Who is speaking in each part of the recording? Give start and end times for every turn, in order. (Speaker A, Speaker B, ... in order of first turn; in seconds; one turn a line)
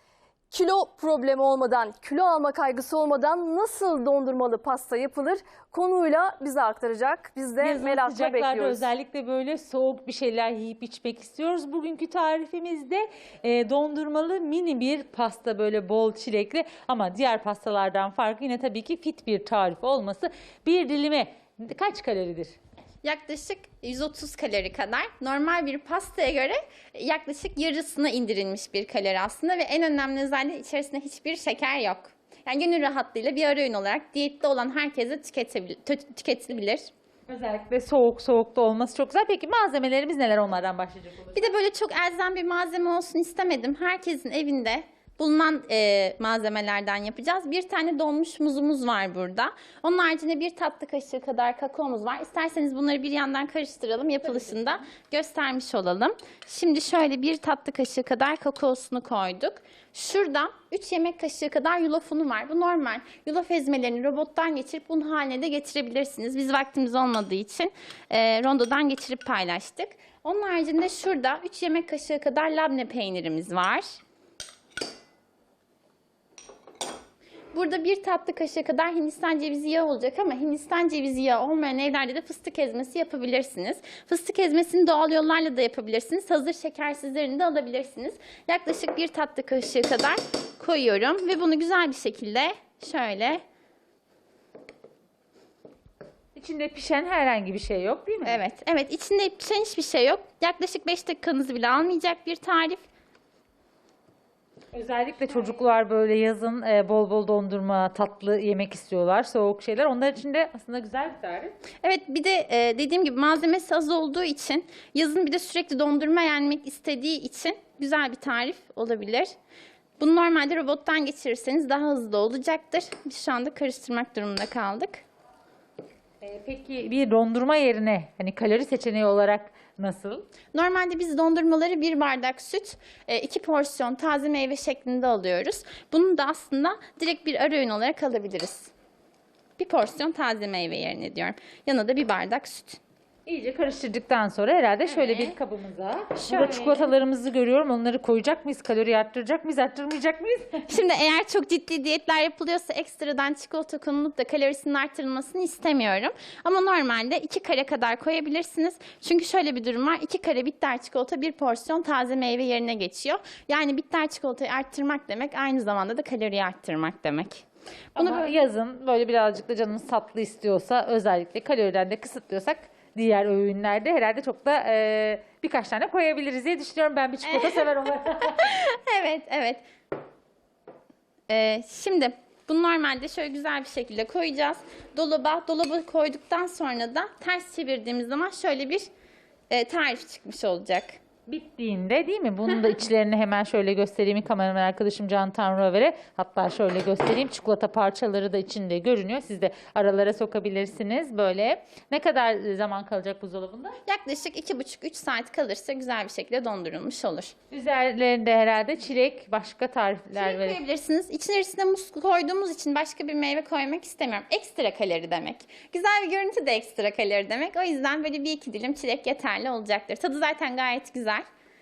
Speaker A: 0.5-8.8
Speaker B: 7.6-22.5
Speaker C: 23.0-36.9
Speaker B: 37.3-41.5
Speaker C: 41.3-73.9
Speaker C: 77.5-93.4
Speaker B: 96.3-98.4
Speaker C: 98.2-102.8
Speaker B: 104.7-111.5
Speaker C: 111.8-119.3
Speaker C: 120.0-125.0
Speaker B: 126.2-130.2
Speaker C: 130.5-138.7
Speaker C: 139.6-142.8
Speaker B: 143.2-150.7
Speaker C: 144.8-145.3
Speaker C: 146.1-146.9
Speaker C: 150.7-168.3
Speaker B: 167.9-178.4
Speaker C: 177.2-177.7
Speaker C: 178.2-179.6
Speaker C: 181.3-188.9
Speaker C: 189.5-190.9
Speaker B: 191.3-203.8
Speaker C: 203.8-207.3
Speaker B: 207.5-210.6
Speaker C: 210.2-221.2